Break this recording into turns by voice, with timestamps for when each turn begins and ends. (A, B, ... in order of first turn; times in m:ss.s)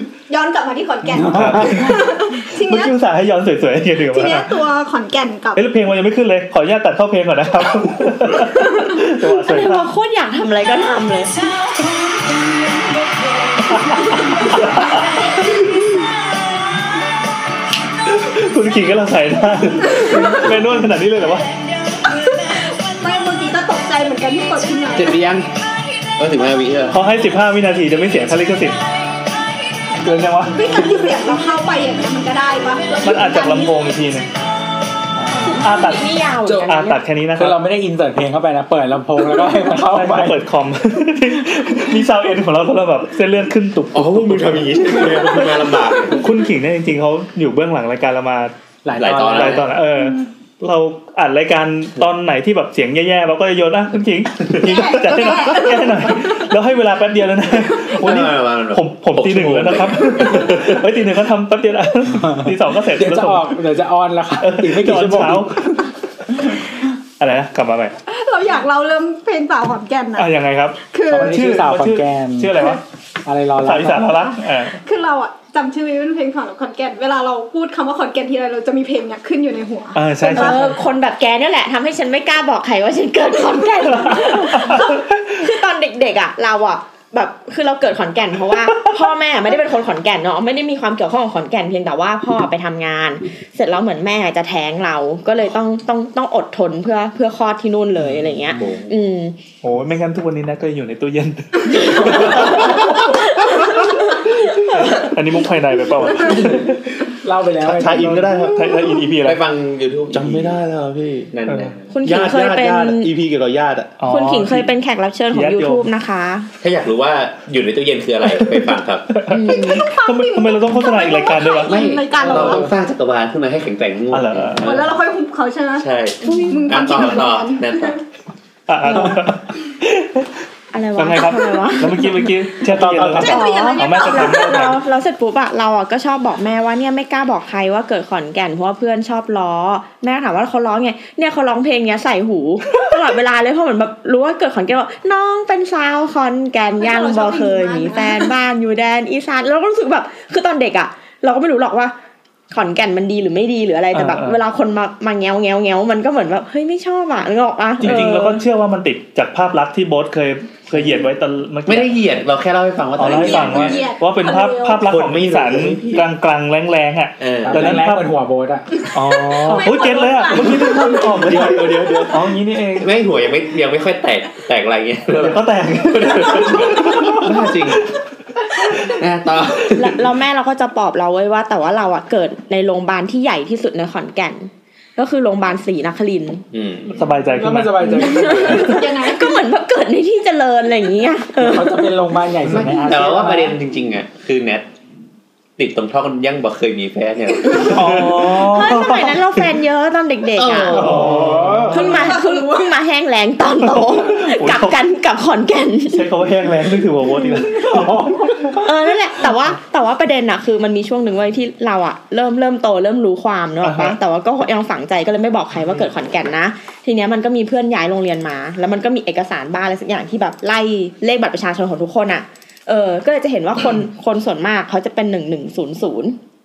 0:00.3-0:02.9 A
0:01.0-0:02.0 B
0:01.2-0:01.9 C
0:02.5-0:04.5 C
0:04.1-0:05.6 A
0:05.6-0:09.9 C
0:08.4-0:08.9 A
0:09.5-0:11.6 D
0:13.7-0:15.0 C
0:14.1-0:14.9 A
0:18.0-0:21.5 C
0:19.9-0:20.5 A
0:21.9-0:25.3 A
0:24.9-0:25.5 E
0:26.2-0:27.0 E
0:26.9-0:28.8 C
0:30.0-0:30.7 C
0:30.5-0:33.8 A
0:33.0-0:34.3 C
0:35.2-0:37.6 C
0:35.4-0:37.0 D
0:37.4-0:40.4 B
0:39.8-1:03.6 C
0:43.9-0:46.2 E
0:48.8-0:49.6 B
0:49.0-0:49.7 E
0:50.0-0:50.3 A
0:54.6-0:56.5 A
0:58.0-1:00.8 E
1:02.1-1:05.8 B
1:04.4-1:05.8 C
1:07.2-1:07.9 C
1:08.1-1:10.3 A
1:10.2-1:12.8 C
1:10.8-1:11.3 A
1:11.1-1:12.6 B
1:13.2-1:14.1 B
1:13.6-1:14.8 C
1:14.1-1:20.7 A
1:19.9-1:20.8 C
1:20.3-1:39.4 D
1:24.0-1:25.2 C
1:38.5-1:38.9 B
1:39.6-1:47.0 C
1:42.0-1:42.5 E
1:42.3-1:44.0 D
1:46.1-1:46.6 A
1:46.3-1:46.6 B
1:47.1-1:48.3 B
1:47.6-1:49.4 C
1:48.4-1:49.0 A
1:49.2-1:50.6 E
1:50.1-1:54.7 C
1:51.3-1:51.9 E
1:51.9-1:53.1 D
1:54.1-1:56.5 D
1:55.3-1:55.9 C
1:56.6-1:59.2 E
1:58.2-2:01.8 C
1:59.3-1:59.8 D
1:59.5-2:02.7 A
2:01.6-2:05.0 E
2:02.2-2:02.7 B
2:04.1-2:04.7 C
2:04.6-2:08.0 A
2:05.8-2:08.0 E
2:06.2-2:06.9 D
2:08.7-2:10.3 C
2:10.7-2:12.4 D
2:11.0-2:14.8 C
2:12.6-2:13.4 B
2:13.2-2:14.6 A
2:13.2-2:31.9 D
2:26.8-2:28.3 A
2:32.5-2:38.4 D
2:33.9-2:34.4 C
2:37.8-2:41.9 C
2:37.8-2:38.2 E
2:41.6-2:43.8 E
2:43.0-2:48.1 C
2:43.0-2:44.8 A
2:44.8-2:46.1 E
2:47.2-2:47.8 E
2:47.4-2:48.7 B
2:48.7-2:52.1 A
2:48.9-2:52.9 C
2:50.5-2:57.9 E
2:55.1-2:57.8 C
2:58.5-3:00.0 E
2:59.7-3:06.4 D
3:06.5-3:07.0 E
3:06.9-3:08.8 C
3:07.3-3:08.7 B
3:08.0-3:11.9 D
3:08.4-3:09.4 A
3:11.4-3:13.6 B
3:12.5-3:14.7 E
3:15.6-3:18.3 E
3:17.6-3:19.5 C
3:18.2-3:21.0 D
3:20.4-3:21.4 E
3:20.7-3:22.0 C
3:20.7-3:22.0 B
3:21.7-3:26.1 D
3:21.7-3:22.8 A
3:23.6-3:24.8 C
3:25.9-3:28.6 C
3:27.5-3:27.9 A
3:27.6-3:28.6 B
3:28.6-3:46.2 D
3:33.6-3:34.0 C